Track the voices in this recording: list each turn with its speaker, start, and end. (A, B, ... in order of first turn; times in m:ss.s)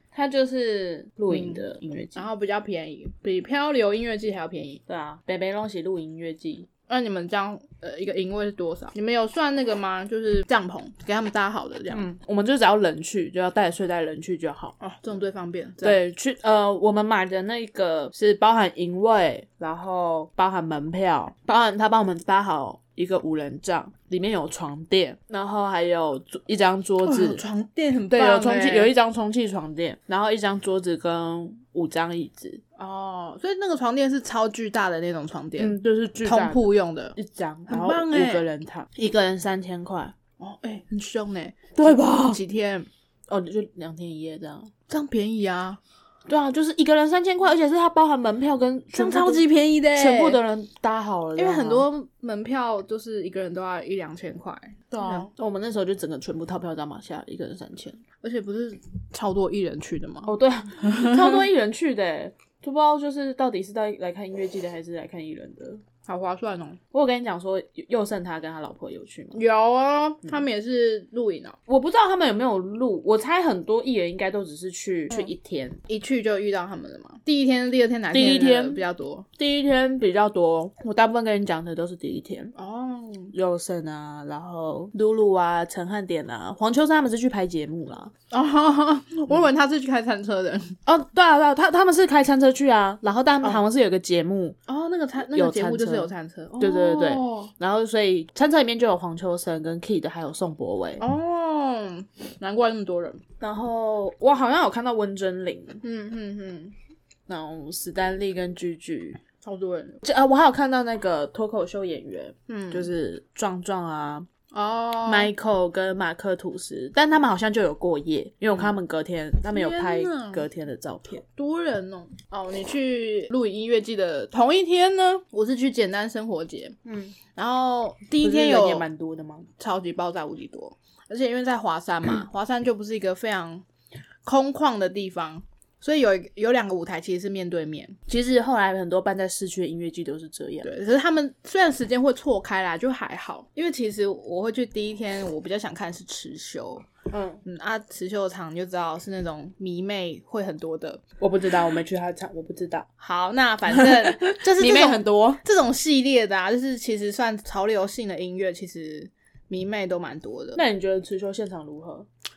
0:00.1-0:02.3 A
0:01.3-0:04.8 B
0:04.9-0:06.7 A
0:06.9-0:12.1 B
0:11.9-0:14.8 A
0:14.8-0:16.0 B
0:15.8-0:27.4 A
0:27.0-0:28.9 B
0:28.1-0:32.6 A
0:32.8-0:37.2 B
0:35.6-0:40.1 A
0:37.7-0:38.4 B
0:40.4-0:42.9 B
0:41.8-0:42.4 A
0:43.3-0:44.7 A
0:44.9-0:45.8 B
0:46.3-0:51.9 A
0:48.9-0:50.4 B
0:51.3-0:55.3 B
0:54.9-0:58.0 A
0:58.2-1:00.3 B
1:00.2-1:05.8 A
1:06.1-1:06.8 B
1:06.9-1:09.4 A
1:09.3-1:11.6 B
1:11.7-1:15.8 A
1:15.9-1:19.3 B
1:18.1-1:18.8 A
1:19.4-1:22.5 A
1:22.6-1:23.3 B
1:23.3-1:28.1 A
1:28.3-1:30.8 B
1:30.9-1:34.6 A
1:34.7-1:37.5 B
1:35.3-1:41.0 A
1:41.0-1:43.2 B
1:43.4-1:45.8 A
1:45.8-1:46.7 B
1:47.3-1:49.2 A
1:49.4-1:50.0 B
1:50.0-1:54.3 A
1:52.5-1:52.9 B
1:54.5-1:55.3 B
1:55.0-2:01.2 A
1:59.5-2:00.4 B
2:01.2-2:06.8 B
2:06.8-2:07.1 A
2:07.3-2:08.9 B
2:08.2-2:09.5 A
2:09.6-2:13.6 B
2:14.2-2:18.0 B
2:18.1-2:20.7 A
2:20.6-2:26.9 B
2:27.1-2:27.4 A
2:27.4-2:31.0 B
2:31.2-2:32.9 A
2:33.0-2:40.6 B
2:33.7-2:35.4 A
2:40.6-2:42.1 A